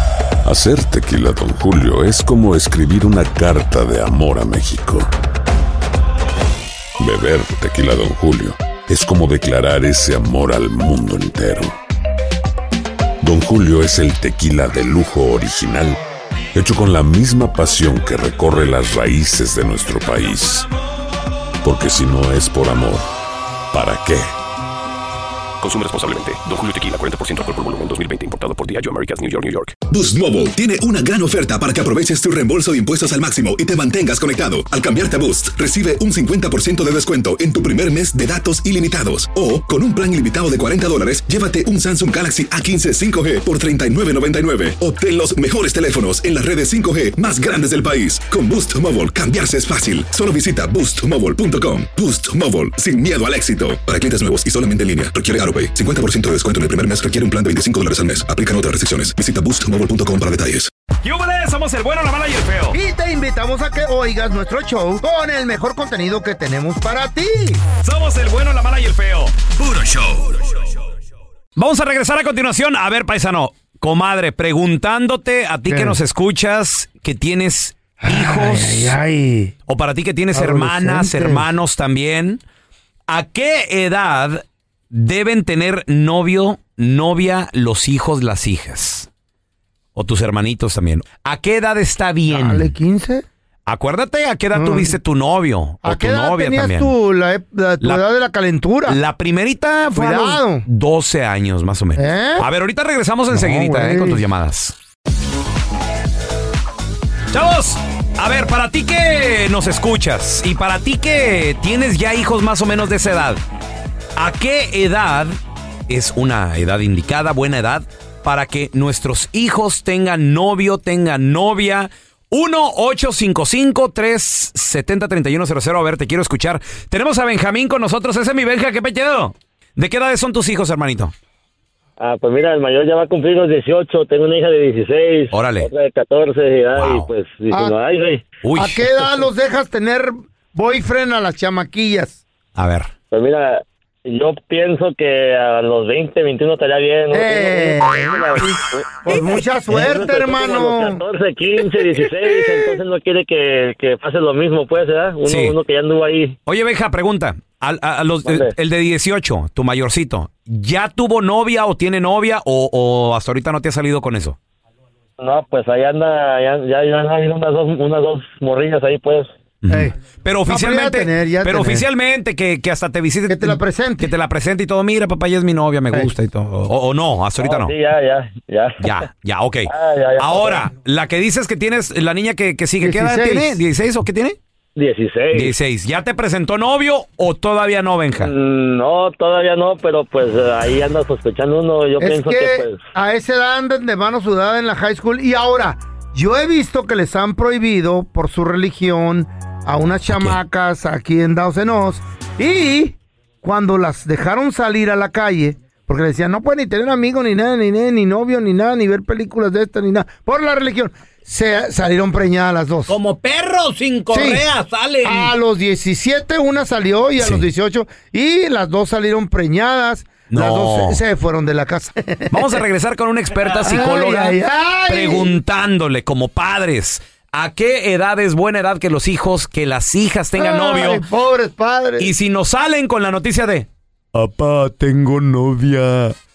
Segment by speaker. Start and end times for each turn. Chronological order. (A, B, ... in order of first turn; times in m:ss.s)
0:00.4-0:05.1 A
0:07.0-0:11.7 A
0:13.2-0:16.0 A
0:16.5-0:20.7 A
0:21.6-0:23.1 A
0:23.7-0:24.3 A
0:25.6-0:29.8 B
0:29.9-1:00.7 C
1:01.0-1:02.8 D
1:02.7-1:07.6 E
1:07.8-1:10.6 D
1:11.6-1:19.0 D
1:15.7-1:16.0 E
1:18.0-1:19.5 E
1:19.7-1:22.4 D
1:20.3-1:21.4 E
1:23.1-1:29.1 D
1:29.9-1:32.7 D
1:32.3-1:33.2 E
1:33.7-1:36.9 D
1:34.5-1:34.9 E
1:35.8-1:39.0 E
1:38.9-1:44.7 D
1:39.9-1:40.6 E
1:42.0-1:42.4 E
1:43.3-1:44.2 E
1:47.3-1:53.4 D
1:54.2-1:55.4 D
1:55.9-2:11.1 D
2:12.0-2:18.2 F
2:15.3-2:15.7 D
2:16.7-2:17.1 D
2:17.5-2:17.8 E
2:18.4-2:19.0 D
2:18.6-2:22.2 E
2:22.6-2:22.9 D
2:23.1-2:36.4 F
2:27.1-2:31.0 E
2:35.3-2:35.6 D
2:36.4-2:44.4 D
2:38.2-2:38.5 F
2:45.2-2:49.3 F
2:49.6-2:57.7 D
2:50.5-2:51.8 E
2:53.3-2:54.1 E
2:57.4-2:58.9 F
2:58.8-3:04.4 D
2:59.7-3:00.7 F
3:02.8-3:03.6 E
3:04.8-3:05.5 F
3:05.3-3:08.3 D
3:08.2-3:12.8 F
3:12.0-3:33.0 E
3:20.1-3:20.4 D
3:32.9-3:35.3 D
3:34.1-3:34.5 E
3:35.0-3:42.6 E
3:37.2-3:37.4 D
3:40.3-3:41.0 D
3:42.3-3:44.4 D
3:43.6-3:45.3 E
3:44.9-3:51.0 D
3:50.4-3:52.1 E
3:52.0-3:56.1 D